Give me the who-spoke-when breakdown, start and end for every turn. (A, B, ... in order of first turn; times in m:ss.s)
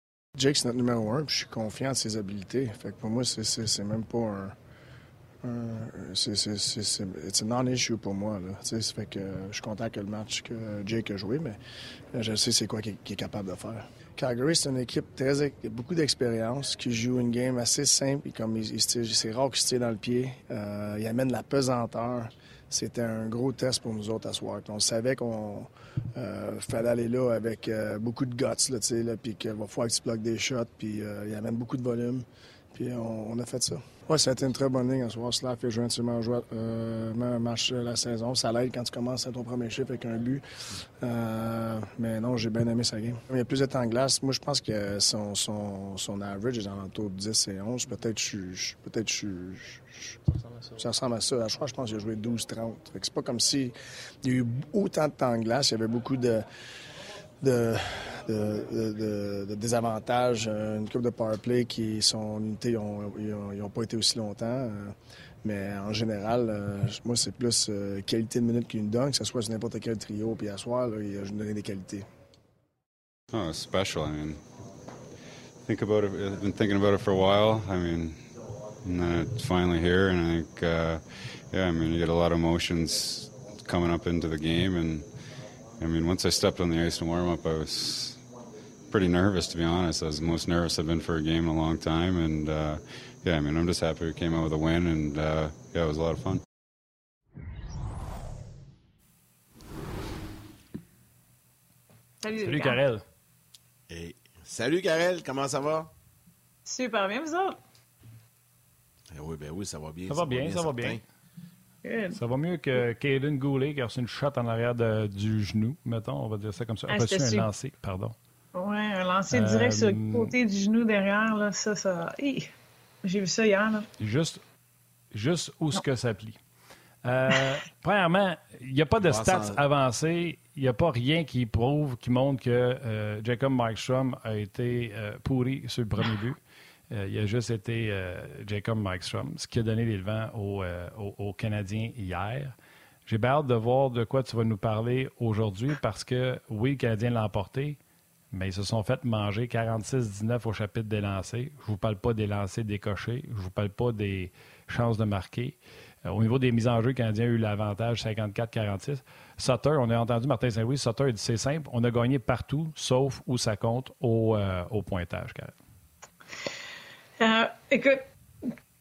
0:00.4-0:04.6 A
0:05.4-0:11.6 A
0:12.1-0:40.4 A
0:41.0-0:50.2 A
0:50.8-0:56.4 A
0:57.4-1:12.1 A
1:13.3-1:14.4 B
1:15.6-1:18.3 B
1:18.8-1:25.1 B
1:25.8-1:28.2 B
1:28.9-1:36.4 B
1:42.2-1:42.8 C
1:42.4-1:43.0 D
1:43.9-1:45.9 E
1:46.7-1:47.6 C
1:49.1-1:51.0 E
1:50.1-1:51.0 D
1:51.8-1:52.2 C
1:52.1-1:58.2 D
1:56.9-1:57.5 C
1:58.5-2:02.5 C
1:59.3-2:00.3 D
2:03.0-2:03.9 C
2:04.0-2:04.4 D
2:05.1-2:06.4 D
2:07.0-2:16.4 D
2:09.0-2:09.6 E
2:16.9-2:22.6 D
2:23.1-2:27.8 D
2:28.3-2:45.5 D
2:47.2-2:48.5 C